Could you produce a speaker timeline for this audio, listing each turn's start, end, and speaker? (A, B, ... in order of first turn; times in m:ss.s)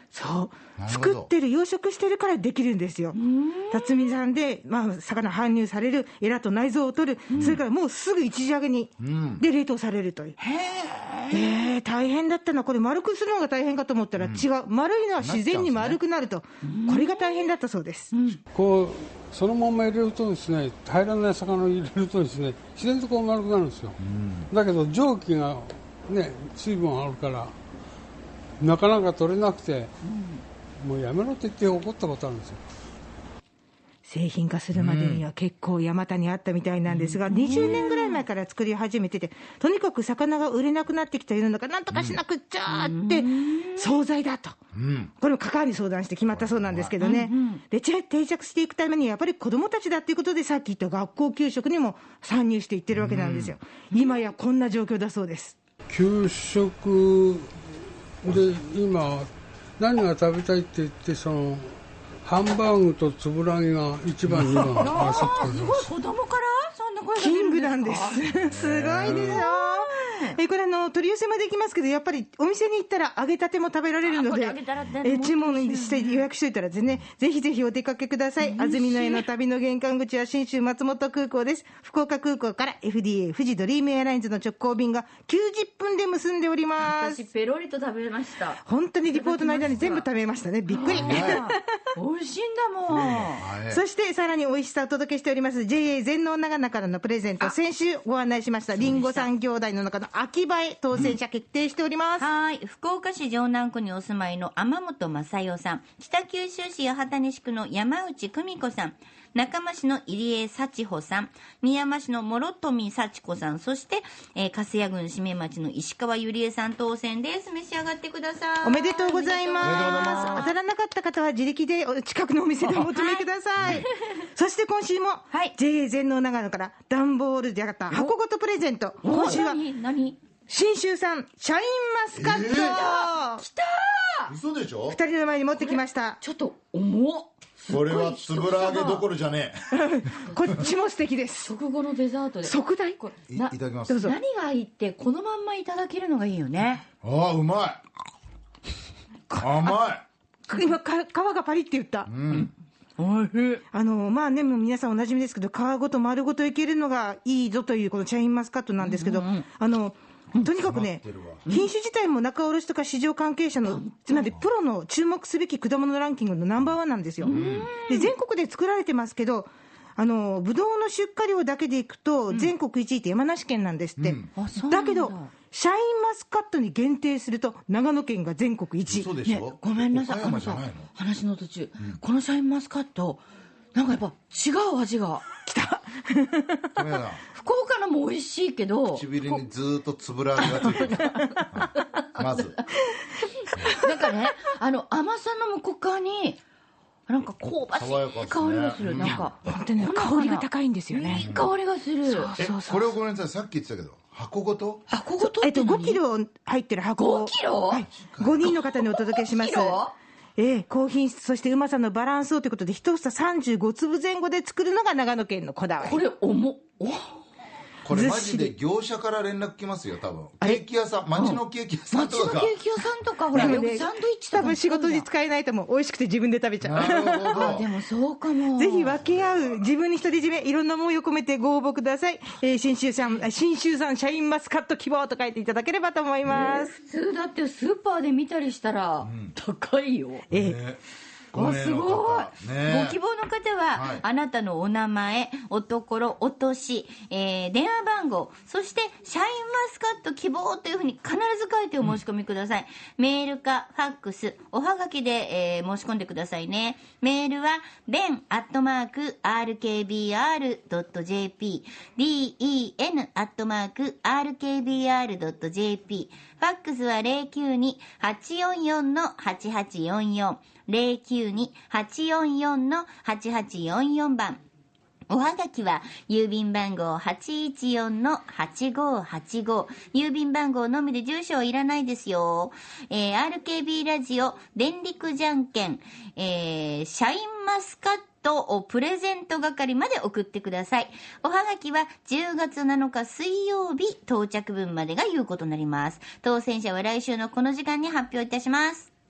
0:00.1-0:03.2 A
0:00.8-0:01.3 B
0:03.1-0:04.1 C
0:03.7-0:10.4 A
0:07.3-0:07.6 C
0:07.3-0:07.6 B
0:09.0-0:09.4 B
0:10.4-0:11.6 C
0:11.3-0:18.1 A
0:14.2-0:14.4 B
0:15.2-0:16.0 B
0:16.6-0:17.5 C
0:18.1-0:18.4 C
0:18.5-0:24.0 D
0:24.0-0:24.5 B
0:24.5-0:27.6 D
0:28.6-0:29.9 D
0:30.0-0:30.4 C
0:30.8-0:32.6 D
0:34.0-0:44.6 A
0:34.7-0:35.2 B
0:36.9-0:38.2 C
0:41.9-0:42.2 B
0:42.7-0:44.0 C
0:44.7-0:45.1 B
0:45.2-0:55.6 A
0:46.3-0:47.0 B
0:47.0-0:47.6 C
0:52.9-0:53.6 B
0:53.9-0:54.3 C
0:55.9-0:57.5 D
0:58.2-1:05.9 D
1:04.3-1:04.9 B
1:04.7-1:08.3 C
1:07.1-1:27.2 A
1:08.4-1:09.4 B
1:09.0-1:09.4 D
1:09.1-1:10.4 C
1:14.0-1:16.2 C
1:18.4-1:19.2 C
1:26.8-1:30.0 C
1:28.6-1:31.6 A
1:30.7-1:33.5 C
1:30.8-1:31.4 B
1:32.9-1:33.8 B
1:33.7-1:42.3 A
1:38.7-1:39.3 C
1:42.2-2:00.1 E
1:58.6-2:09.6 A
1:59.6-2:00.5 C
1:59.6-2:00.4 B
2:02.6-2:03.9 C
2:03.6-2:03.8 B
2:07.9-2:08.1 C
2:09.0-2:10.2 C
2:10.5-2:13.4 A
2:12.1-2:12.8 B
2:12.6-2:14.4 C
2:14.3-2:15.0 B
2:14.9-2:16.2 A
2:15.6-2:19.1 C
2:17.7-2:19.9 B
2:19.7-2:21.5 A
2:21.4-2:26.8 C
2:22.4-2:23.0 A
2:23.3-2:24.0 B
2:23.9-2:24.2 A
2:27.0-2:27.8 B
2:29.3-2:29.8 A
2:29.4-2:30.0 B
2:30.5-2:32.1 A
2:32.1-2:32.5 B
2:32.3-2:33.6 C
2:33.7-2:47.3 A
2:38.8-2:39.4 C
2:40.6-2:41.4 B
2:43.6-2:44.3 C
2:47.2-2:47.7 B
2:47.2-2:48.1 C
2:47.8-2:59.1 A
2:54.0-2:54.3 B
2:54.4-2:55.3 C
2:58.9-3:00.9 B
2:59.2-3:03.2 C
3:03.7-3:05.2 C
3:05.4-3:06.7 A
3:06.8-3:07.2 B
3:07.3-3:09.4 C
3:08.9-3:12.6 B
3:10.4-3:12.7 C
3:13.4-3:16.4 C
3:13.6-3:13.9 A
3:17.1-3:22.3 C
3:17.7-3:19.3 B
3:19.0-3:21.3 A
3:21.1-3:21.5 B
3:22.0-3:22.9 A
3:22.4-3:24.8 B
3:24.9-3:26.0 C
3:25.2-3:29.8 A
3:27.0-3:27.9 C
3:27.9-3:28.5 B
3:28.4-3:29.9 C
3:30.4-3:36.0 A
3:35.8-3:37.2 C
3:37.8-3:42.6 B
3:37.9-3:38.5 A
3:41.1-3:45.1 C
3:43.3-3:43.7 B
3:43.3-3:47.6 A
3:46.6-3:47.7 B
3:47.3-3:49.0 C
3:48.6-3:56.8 A
3:49.0-3:49.5 B
3:56.2-4:00.2 C
3:59.0-3:59.3 B
4:00.3-4:00.6 A
4:00.3-4:00.8 B
4:01.3-4:03.0 B
4:01.3-4:03.0 C
4:03.0-4:34.4 E
4:03.7-4:04.0 B
4:35.1-4:58.9 E